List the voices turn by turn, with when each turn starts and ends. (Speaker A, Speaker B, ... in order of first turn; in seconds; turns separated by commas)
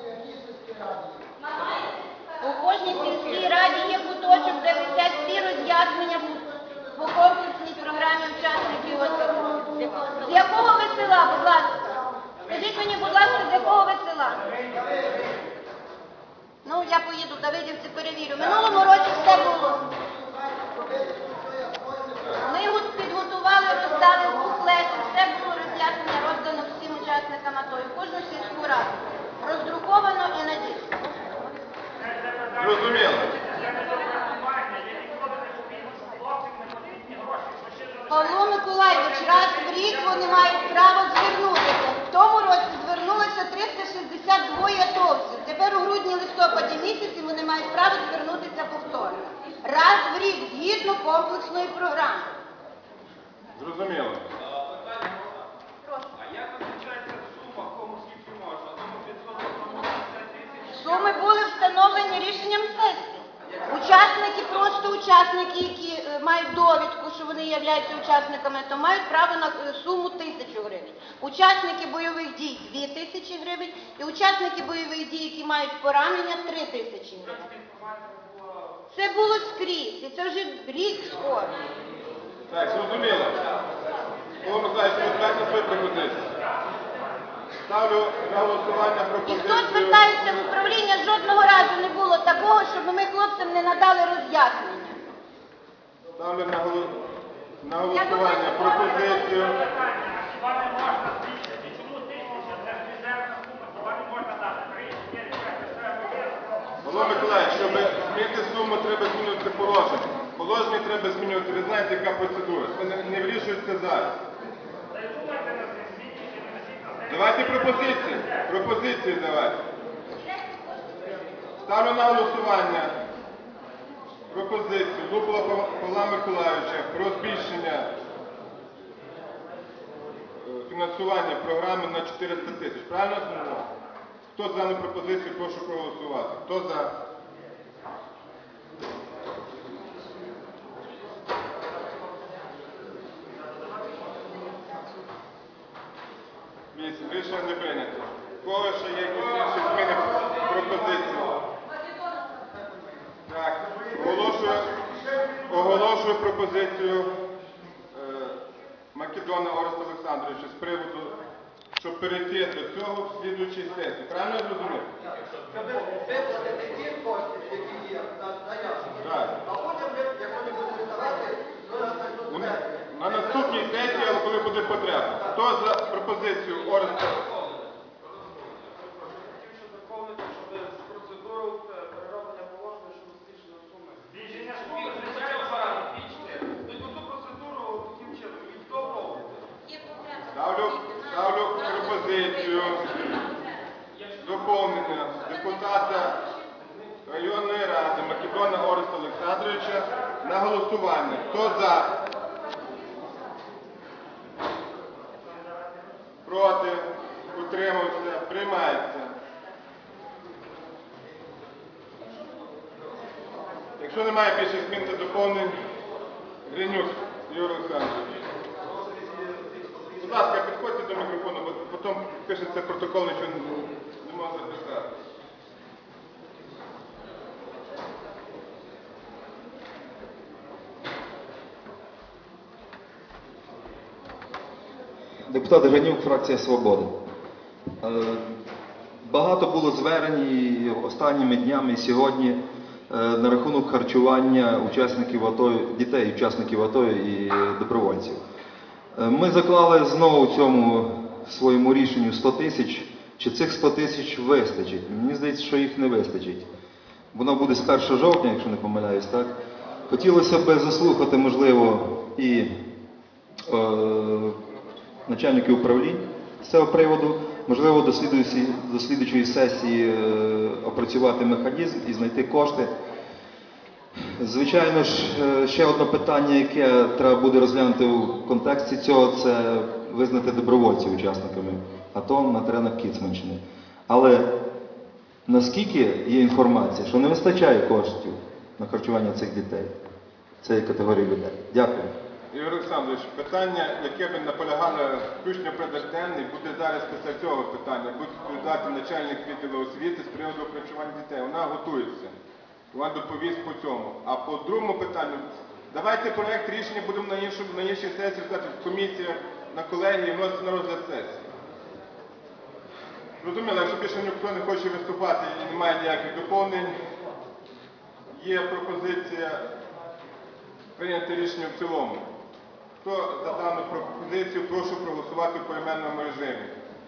Speaker A: 1.4-14.5, Speaker B: 14.6-15.4, Speaker A: 16.6-19.9, Speaker B: 20.6-22.3, Speaker A: 22.4-30.9, Speaker C: 32.0-41.0, Speaker D: 32.6-33.4, Speaker A: 38.1-52.3, Speaker D: 53.5-54.3, Speaker E: 56.4-60.2, Speaker A: 60.6-63.1, Speaker A: 63.7-77.5, Speaker A: 78.9-81.7, Speaker D: 82.5-83.5, Speaker D: 84.4-86.3, Speaker D: 87.7-90.4, Speaker A: 89.3-95.0, Speaker D: 96.2-97.0, Speaker D: 97.6-99.6, Speaker A: 97.9-99.5, Speaker C: 99.3-107.8, Speaker D: 106.8-114.2, Speaker C: 114.9-118.5, Speaker D: 117.1-119.6, Speaker A: 120.2-121.3, Speaker D: 121.6-122.9, Speaker D: 124.3-127.9, Speaker D: 130.4-133.7, Speaker D: 134.3-136.9, Speaker D: 146.7-151.4, Speaker A: 151.7-152.4, Speaker D: 153.3-154.7, Speaker B: 153.7-155.7, Speaker D: 155.5-157.2, Speaker D: 157.9-158.4, Speaker D: 158.9-161.2, Speaker D: 161.8-164.9, Speaker B: 165.4-174.2, Speaker D: 169.0-169.4, Speaker D: 172.3-177.3, Speaker E: 179.4-183.9, Speaker C: 184.1-186.1, Speaker E: 186.5-189.2, Speaker A: 189.7-190.3, Speaker D: 190.3-193.1, Speaker A: 191.7-192.3, Speaker D: 194.2-196.2, Speaker D: 197.1-202.0, Speaker D: 206.2-209.1, Speaker D: 213.8-215.6, Speaker D: 216.5-218.2, Speaker D: 220.0-224.9, Speaker F: 235.3-236.9, Speaker F: 237.8-238.3, Speaker F: 239.0-248.2, Speaker F: 248.9-256.5, Speaker F: 257.1-259.3, Speaker F: 259.9-262.5, Speaker F: 263.5-264.4, Speaker F: 265.1-272.7, Speaker F: 274.2-284.3, Speaker F: 285.3-289.8, Speaker F: 290.4-291.9, Speaker D: 292.3-302.1, Speaker D: 302.7-311.2, Speaker D: 313.2-316.8, Speaker D: 318.1-319.5, Speaker D: 320.8-322.1, Speaker D: 322.8-326.5